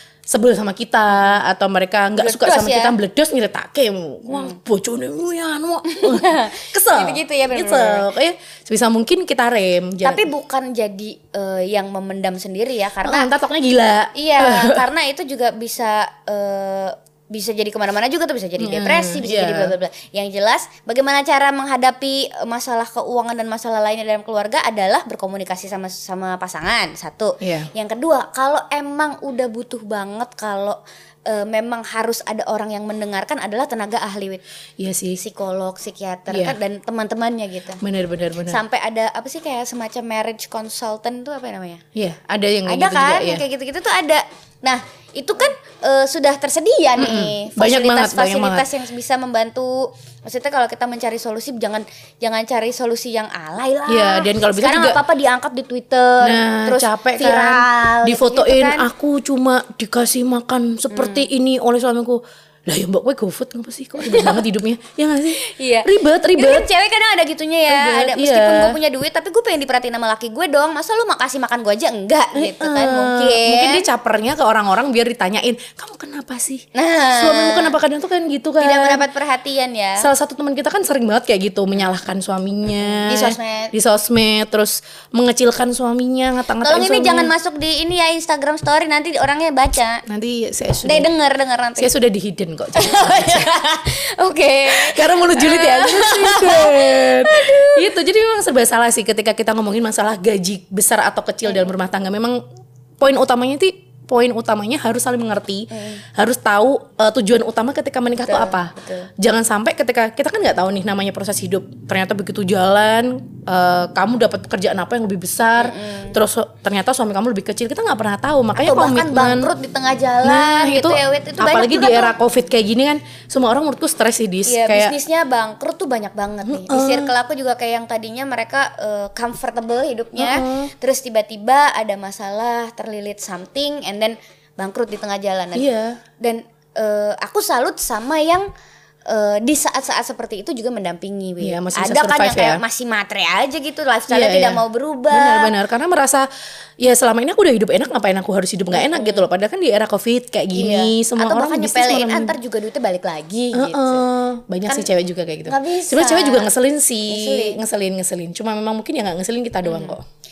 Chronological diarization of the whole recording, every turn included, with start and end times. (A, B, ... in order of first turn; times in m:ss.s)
0:00.3-0:10.2 A
0:02.2-0:02.9 B
0:04.3-0:04.6 B
0:05.9-0:08.1 B
0:10.0-0:13.3 B
0:13.0-0:14.8 A
0:14.1-0:34.4 B
0:18.6-0:19.7 A
0:27.4-0:27.7 A
0:34.8-0:35.2 A
0:35.1-0:37.8 B
0:36.3-0:36.6 A
0:37.8-0:38.6 A
0:38.5-0:41.8 B
0:41.9-0:43.4 A
0:42.7-0:58.9 B
0:47.0-0:48.6 A
0:53.9-0:55.0 A
0:56.2-1:06.7 A
1:00.9-1:01.3 B
1:04.0-1:04.4 B
1:05.4-1:13.9 B
1:07.7-1:08.8 A
1:12.3-1:19.0 A
1:16.7-1:17.8 B
1:18.6-1:20.1 B
1:20.0-1:27.3 A
1:22.9-1:23.7 B
1:26.6-1:30.0 B
1:30.1-1:31.1 A
1:30.8-1:31.9 B
1:31.8-1:33.5 A
1:32.7-1:37.9 B
1:34.7-1:42.4 A
1:43.0-1:59.5 A
1:45.7-1:46.0 B
1:48.2-1:49.1 B
1:55.6-1:56.2 B
1:58.6-2:02.1 B
2:00.2-2:04.9 A
2:04.4-2:15.6 B
2:06.4-2:07.1 A
2:10.2-2:10.7 A
2:15.5-2:16.0 A
2:16.2-2:18.5 B
2:19.1-2:25.5 B
2:21.4-2:22.6 A
2:24.1-2:26.3 A
2:26.8-2:32.4 A
2:28.7-2:29.2 B
2:30.5-2:34.0 B
2:33.5-2:40.0 A
2:35.5-2:36.5 B
2:37.1-2:37.6 B
2:39.6-2:40.0 B